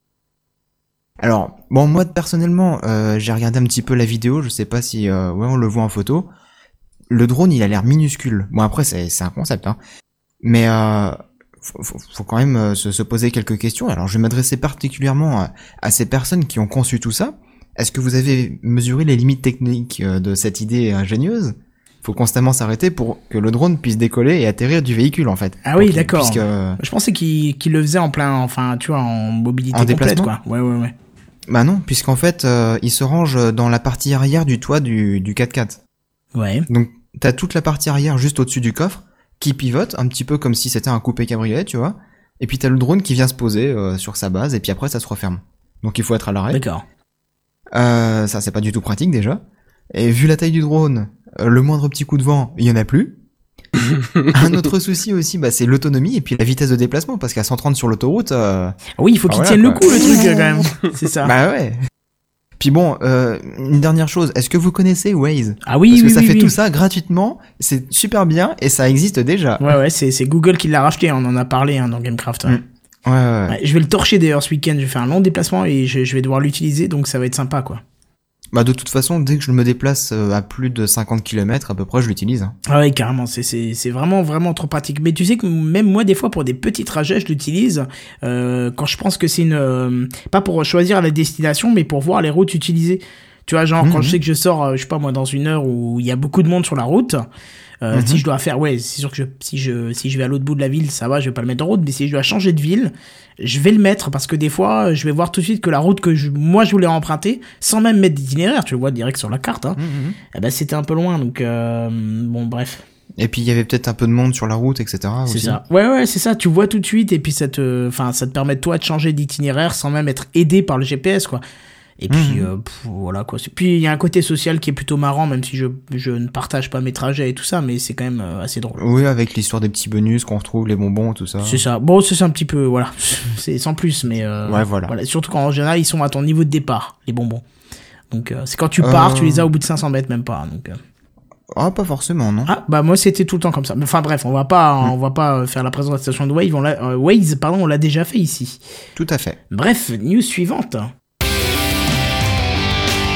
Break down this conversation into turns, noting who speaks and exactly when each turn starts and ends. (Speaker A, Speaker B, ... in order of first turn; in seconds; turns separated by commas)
Speaker A: 1.2-6.3, Speaker A: 7.1-9.8, Speaker A: 10.4-26.8, Speaker B: 25.6-30.9, Speaker A: 29.7-30.3, Speaker A: 31.5-35.8, Speaker B: 36.3-36.7, Speaker A: 36.7-46.6, Speaker B: 46.5-46.8, Speaker A: 47.7-49.4, Speaker A: 49.9-53.1, Speaker A: 54.3-58.8, Speaker B: 59.0-61.3, Speaker A: 59.3-60.7, Speaker A: 61.2-61.8, Speaker A: 62.6-69.7, Speaker B: 65.7-66.5, Speaker B: 69.6-72.6, Speaker A: 72.5-73.6, Speaker B: 73.5-77.8, Speaker A: 78.5-82.5, Speaker B: 82.7-97.2, Speaker A: 93.8-94.2, Speaker B: 97.8-109.8, Speaker A: 97.9-98.2, Speaker A: 109.8-110.2, Speaker B: 110.3-112.8, Speaker A: 113.2-115.6, Speaker B: 115.3-121.4, Speaker B: 122.0-128.8, Speaker A: 122.1-122.5, Speaker A: 128.8-131.6, Speaker B: 131.4-137.4, Speaker A: 134.4-134.9, Speaker B: 138.1-140.8, Speaker A: 138.8-139.5, Speaker A: 141.5-142.5, Speaker B: 142.4-148.6, Speaker A: 148.9-149.4, Speaker B: 149.5-150.9